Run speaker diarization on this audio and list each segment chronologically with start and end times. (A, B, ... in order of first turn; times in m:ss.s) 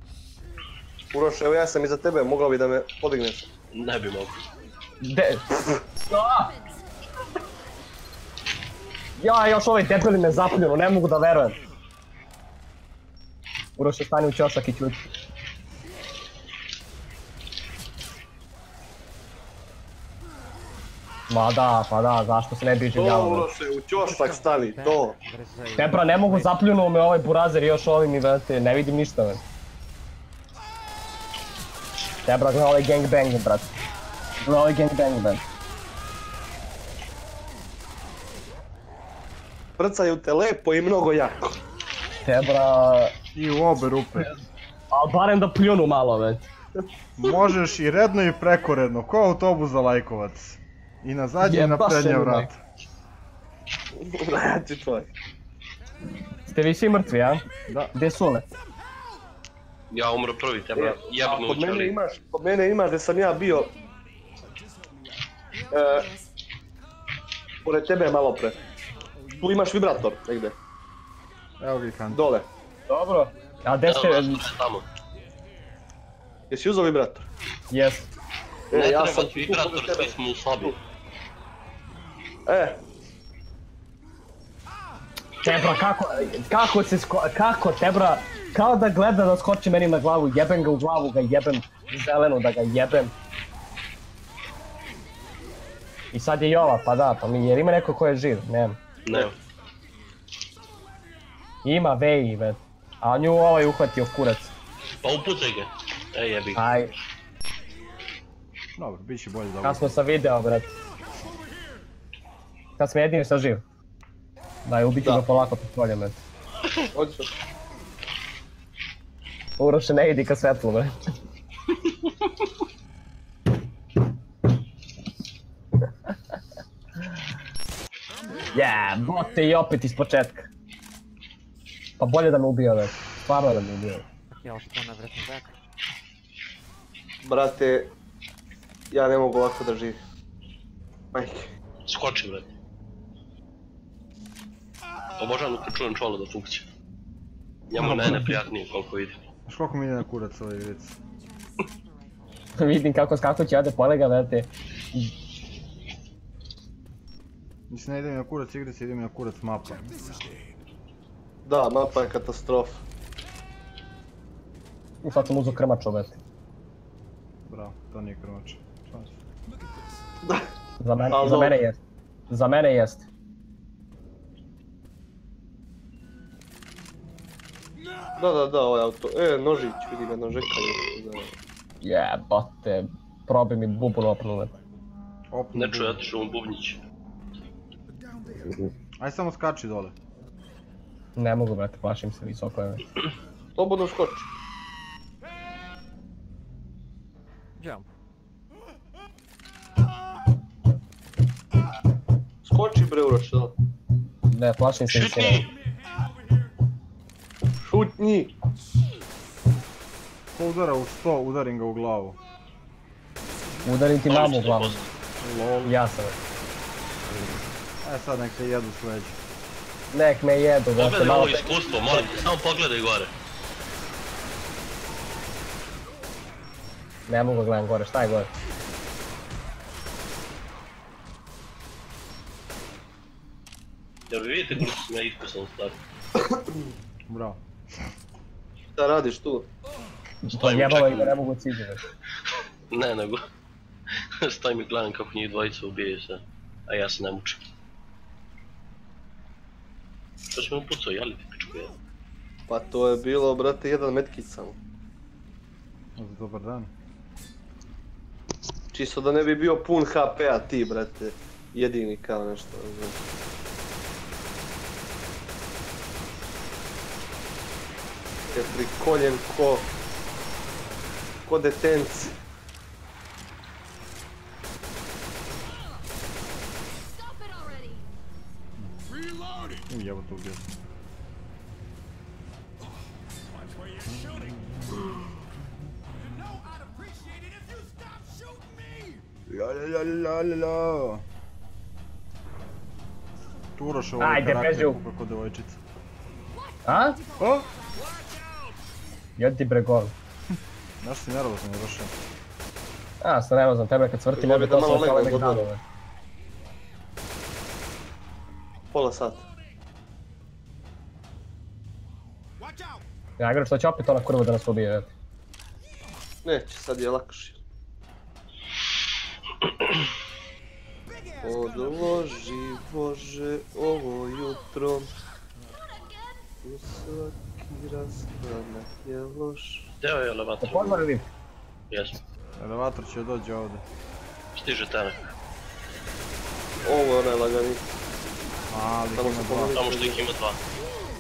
0:01.1-0:03.5 A
0:03.7-0:04.4 B
0:05.0-0:06.5 C
0:06.3-0:06.8 D
0:09.2-0:11.6 C
0:13.8-0:15.0 C
0:21.3-0:23.5 C
0:22.9-0:25.2 A
0:24.0-0:26.6 E
0:25.8-0:29.4 C
0:32.2-0:33.7 C
0:34.4-0:35.4 C
0:39.8-0:41.6 A
0:42.2-0:43.2 C
0:43.4-0:44.3 F
0:44.9-0:46.5 C
0:47.2-0:52.6 F
0:51.4-0:52.5 C
0:54.0-0:55.1 A
0:56.5-0:58.5 C
0:57.7-0:57.9 F
0:59.9-1:02.0 B
1:00.8-1:03.7 A
1:03.5-1:03.9 D
1:04.4-1:05.4 G
1:05.5-1:06.3 D
1:05.7-1:06.1 A
1:07.6-1:08.6 A
1:09.2-1:09.8 G
1:09.4-1:10.6 A
1:11.6-1:12.3 F
1:12.1-1:12.5 A
1:12.9-1:14.5 C
1:13.8-1:14.9 B
1:16.5-1:17.3 A
1:17.7-1:18.1 C
1:18.7-1:20.8 A
1:18.7-1:20.8 B
1:22.5-1:22.8 A
1:25.4-1:33.1 C
1:36.1-1:39.3 C
1:39.0-1:39.4 B
1:41.6-1:44.5 C
1:45.0-1:46.7 B
1:46.6-1:46.9 C
1:48.8-1:50.0 F
1:49.6-1:50.7 C
1:51.2-1:51.6 G
1:52.8-1:53.6 C
1:54.7-1:56.2 C
1:56.9-1:57.3 A
1:59.6-2:01.1 C
2:08.1-2:09.6 G
2:08.5-2:10.5 C
2:12.0-2:14.0 C
2:14.3-2:15.6 E
2:17.2-2:17.9 A
2:18.9-2:20.0 A
2:21.1-2:21.5 A
2:21.9-2:22.5 B
2:25.2-2:26.7 B
2:27.7-2:29.2 B
2:27.8-2:28.4 F
2:29.5-2:31.0 F
2:31.1-2:32.5 D
2:32.6-2:35.1 C
2:37.7-2:39.9 F
2:39.6-2:40.6 G
2:40.0-2:40.3 D
2:41.5-2:42.8 A
2:45.0-2:46.2 C
2:47.5-2:49.2 F
2:49.5-2:50.1 G
2:50.8-2:51.8 C
2:51.1-2:51.6 A
2:52.3-2:53.1 C
2:58.2-3:01.3 A
3:01.8-3:04.5 C
3:05.3-3:06.0 F
3:05.5-3:06.8 B
3:07.9-3:08.7 G
3:09.0-3:10.0 F
3:11.2-3:12.8 C
3:13.6-3:14.3 A
3:17.6-3:17.9 E
3:22.4-3:23.5 A
3:24.3-3:25.5 C
3:24.9-3:25.5 B
3:25.5-3:26.5 G
3:27.6-3:28.3 A
3:30.3-3:32.2 F
3:33.6-3:34.8 C
3:34.1-3:34.9 B
3:35.2-3:35.8 F
3:35.6-3:36.2 C
3:37.8-3:39.2 F
3:39.9-3:42.0 C
3:40.8-3:43.1 B
3:47.1-3:48.3 C
3:54.1-3:55.8 B
3:57.1-3:57.4 F
3:58.8-3:59.5 A
4:00.3-4:01.8 C
4:00.3-4:01.2 B
4:02.7-4:03.2 B
4:04.2-4:07.4 B
4:10.3-4:11.8 B
4:12.5-4:14.6 A
4:16.0-4:16.7 F
4:18.7-4:23.0 A
4:28.3-4:29.7 A
4:31.3-4:32.2 A
4:36.7-4:37.9 D
4:38.9-4:39.7 G
4:39.7-4:40.5 F
4:43.3-4:44.8 G
4:43.9-4:44.9 F
4:46.0-4:49.0 G
4:49.3-4:51.0 F
4:53.6-4:55.6 F
4:54.0-4:54.8 C
4:56.3-4:58.0 D
4:56.7-4:57.0 C
4:57.2-4:57.5 F
4:57.7-4:58.6 G
4:59.2-4:59.9 C
5:00.8-5:01.9 F
5:03.0-5:05.6 C
5:04.1-5:05.5 A
5:08.7-5:09.2 A
5:12.4-5:12.8 G
5:13.2-5:14.9 C
5:16.2-5:17.4 A
5:20.9-5:22.3 G
5:21.2-5:24.9 A
5:26.4-5:29.7 A
5:29.8-5:30.8 B
5:30.4-5:31.1 C
5:31.7-5:32.0 B
5:32.4-5:33.6 F
5:34.3-5:35.1 B
5:36.6-5:37.6 A
5:38.5-5:39.6 F
5:39.0-5:40.0 A
5:39.6-5:40.4 B